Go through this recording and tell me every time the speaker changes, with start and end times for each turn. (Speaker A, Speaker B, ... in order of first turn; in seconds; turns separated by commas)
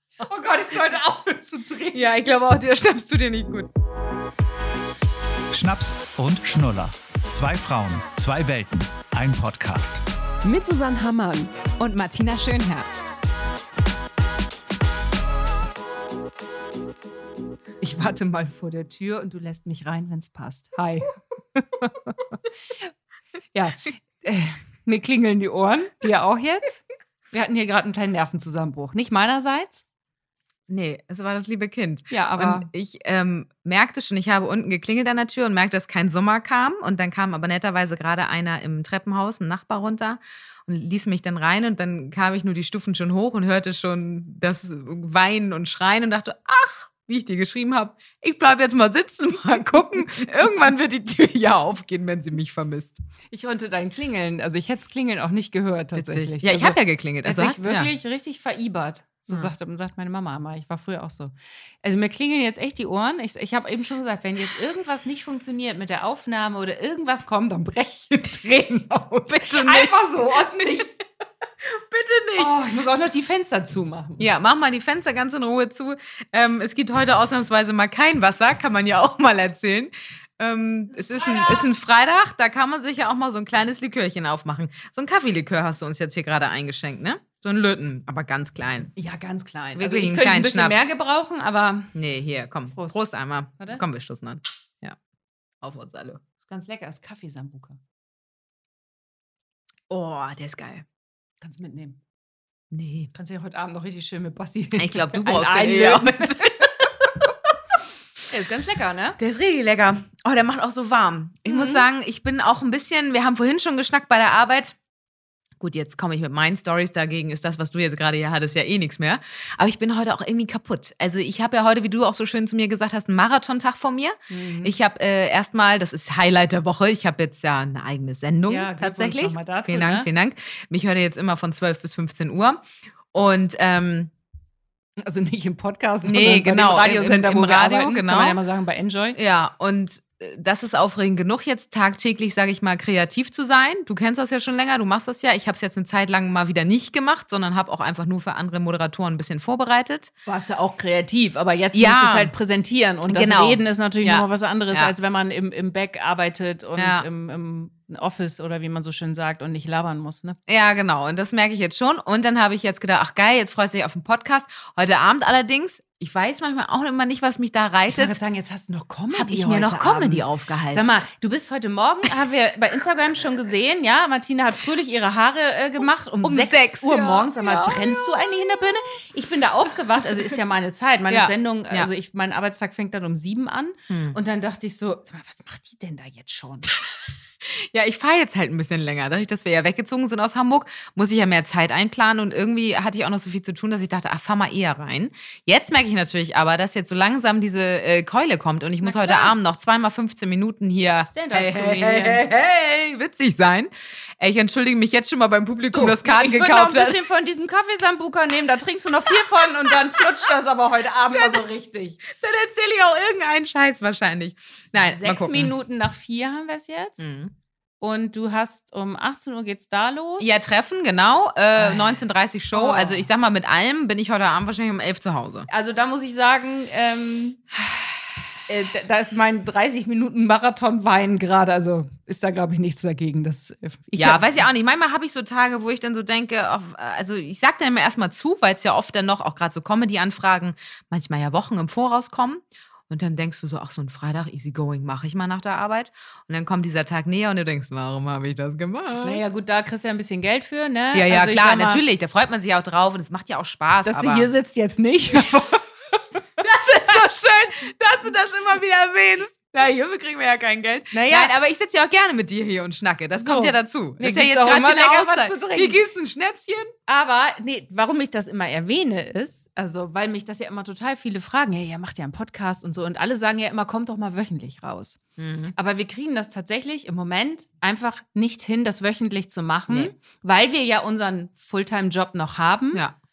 Speaker A: 0.2-2.0, Speaker B: 1.9-3.7, Speaker C: 5.5-10.0, Speaker A: 10.4-11.5, Speaker B: 11.8-12.9, Speaker A: 17.8-22.9, Speaker A: 23.5-29.8, Speaker B: 30.7-53.0, Speaker A: 32.1-32.7, Speaker A: 53.3-71.0, Speaker B: 56.0-57.9, Speaker B: 69.3-70.2, Speaker B: 71.7-72.5, Speaker A: 72.4-74.2, Speaker B: 74.2-88.9, Speaker A: 80.9-81.7, Speaker A: 89.0-91.9, Speaker B: 89.8-90.9, Speaker B: 92.0-95.0, Speaker A: 92.8-93.0, Speaker B: 95.6-96.2, Speaker A: 96.5-97.8, Speaker B: 99.9-100.8, Speaker A: 101.4-102.0, Speaker B: 102.7-103.1, Speaker A: 103.1-106.7, Speaker B: 104.8-106.9, Speaker A: 108.3-109.2, Speaker B: 109.2-114.8, Speaker A: 111.5-111.9, Speaker B: 115.6-134.1, Speaker A: 124.3-124.7, Speaker A: 128.5-130.1, Speaker A: 135.0-139.2, Speaker B: 136.0-138.4, Speaker B: 139.2-150.1, Speaker A: 150.2-160.4, Speaker B: 151.7-152.3, Speaker B: 153.1-154.9, Speaker B: 156.8-157.1, Speaker B: 160.5-168.2, Speaker A: 167.9-186.7, Speaker B: 169.1-171.0, Speaker B: 176.2-178.9, Speaker B: 181.1-181.9, Speaker B: 183.9-184.2, Speaker B: 187.7-207.0, Speaker A: 198.8-199.3, Speaker A: 201.1-202.2, Speaker A: 205.7-212.0, Speaker B: 211.2-211.4, Speaker B: 212.0-215.5, Speaker A: 214.8-217.1, Speaker B: 217.0-217.3, Speaker A: 217.8-220.4, Speaker B: 220.2-225.5, Speaker A: 221.6-222.0, Speaker A: 222.5-223.1, Speaker A: 225.5-227.4, Speaker A: 228.5-234.4, Speaker B: 234.0-249.2, Speaker A: 249.0-251.8, Speaker B: 250.9-254.3, Speaker A: 253.8-256.0, Speaker B: 256.4-266.7, Speaker A: 260.9-261.3, Speaker A: 263.2-265.8, Speaker A: 266.9-275.0, Speaker B: 275.2-275.5, Speaker A: 275.5-282.8